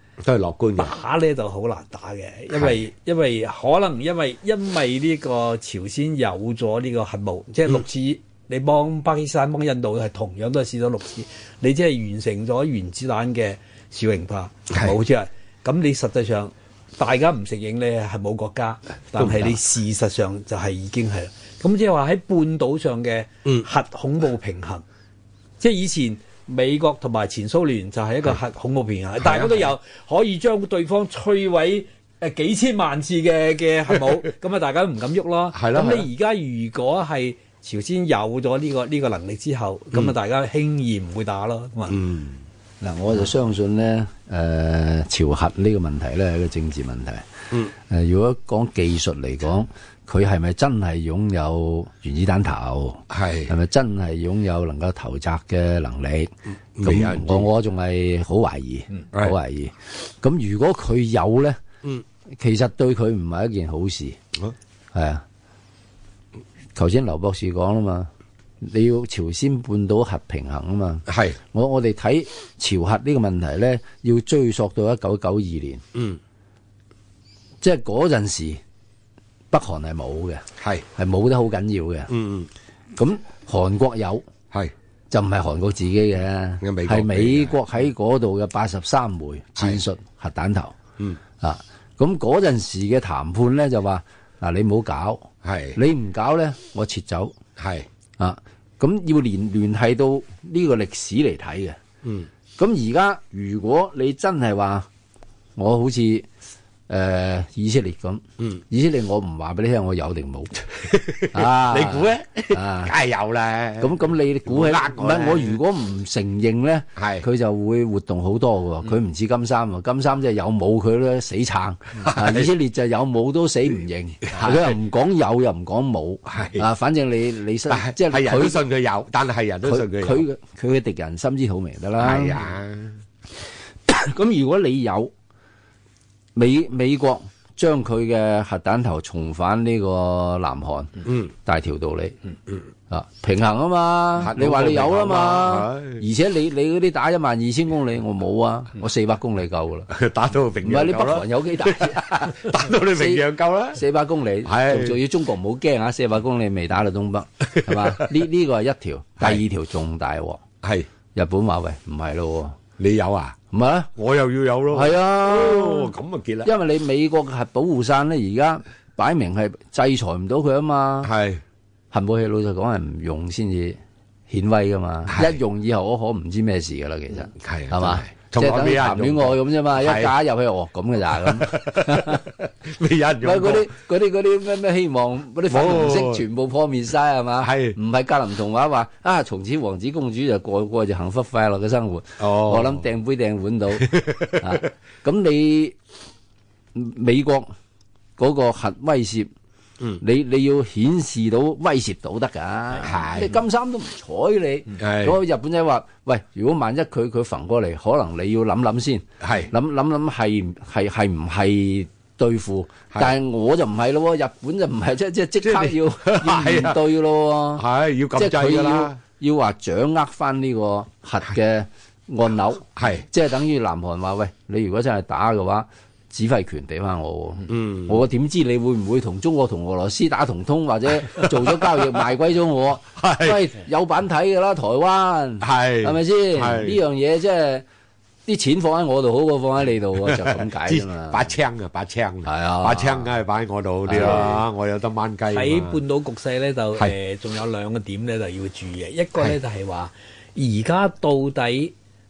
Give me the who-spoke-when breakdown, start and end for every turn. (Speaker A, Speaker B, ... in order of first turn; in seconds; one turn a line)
Speaker A: 0.2-0.9
Speaker B: 0.8-24.8
Speaker A: 2.5-2.8
Speaker A: 19.2-19.6
Speaker B: 25.6-42.0
Speaker A: 29.2-29.7
Speaker A: 35.5-36.1
Speaker A: 41.9-42.4
Speaker C: 42.8-61.6
Speaker A: 53.1-53.5
Speaker A: 56.8-57.5
Speaker C: 62.4-64.2
Speaker C: 64.9-65.2
Speaker C: 66.8-68.1
Speaker C: 68.6-75.8
Speaker A: 71.1-71.4
Speaker C: 77.6-78.6
Speaker C: 79.5-80.4
Speaker A: 80.6-80.9
Speaker C: 81.0-82.1
Speaker A: 82.1-82.5
Speaker C: 83.0-84.3
Speaker C: 85.1-90.8
Speaker A: 86.6-87.5
Speaker C: 91.4-97.3
Speaker A: 95.4-95.8
Speaker A: 97.6-97.9
Speaker C: 98.2-101.8
Speaker A: 102.0-102.3
Speaker C: 102.6-104.9
Speaker C: 105.6-106.3
Speaker C: 106.9-110.7
Speaker A: 110.8-115.6
Speaker C: 111.3-113.0
Speaker C: 113.8-128.6
Speaker A: 117.0-117.3
Speaker A: 122.0-122.5
Speaker A: 124.2-124.8
Speaker A: 126.3-126.7
Speaker A: 127.7-130.3
Speaker C: 129.7-132.5
Speaker A: 132.0-133.0
Speaker C: 133.9-135.1
Speaker C: 136.3-142.2
Speaker A: 141.1-141.3
Speaker C: 142.9-149.9
Speaker A: 144.2-146.0
Speaker A: 149.9-153.9
Speaker C: 150.6-160.4
Speaker A: 154.4-155.0
Speaker A: 157.5-158.1
Speaker A: 160.6-160.9
Speaker C: 161.2-162.6
Speaker A: 162.8-163.4
Speaker C: 163.5-163.9
Speaker A: 163.9-166.5
Speaker C: 164.7-171.1
Speaker A: 171.0-171.4
Speaker C: 171.9-173.8
Speaker C: 174.3-182.2
Speaker A: 175.1-175.4
Speaker A: 177.4-180.1
Speaker A: 181.2-183.7
Speaker C: 183.2-195.8
Speaker A: 185.5-186.2
Speaker A: 187.4-187.8
Speaker A: 192.2-192.8
Speaker A: 193.8-194.5
Speaker C: 196.8-197.5
Speaker C: 198.2-199.3
Speaker C: 200.0-237.7
Speaker A: 202.8-203.3
Speaker A: 204.8-205.2
Speaker A: 209.2-209.5
Speaker A: 215.4-216.8
Speaker A: 217.6-219.0
Speaker A: 222.8-223.1
Speaker A: 227.5-228.0
Speaker A: 231.1-231.7
Speaker A: 233.0-233.5
Speaker A: 235.4-236.8
Speaker C: 238.3-241.3
Speaker A: 240.0-245.8
Speaker C: 242.2-243.1
Speaker C: 243.9-244.5
Speaker B: 245.3-251.7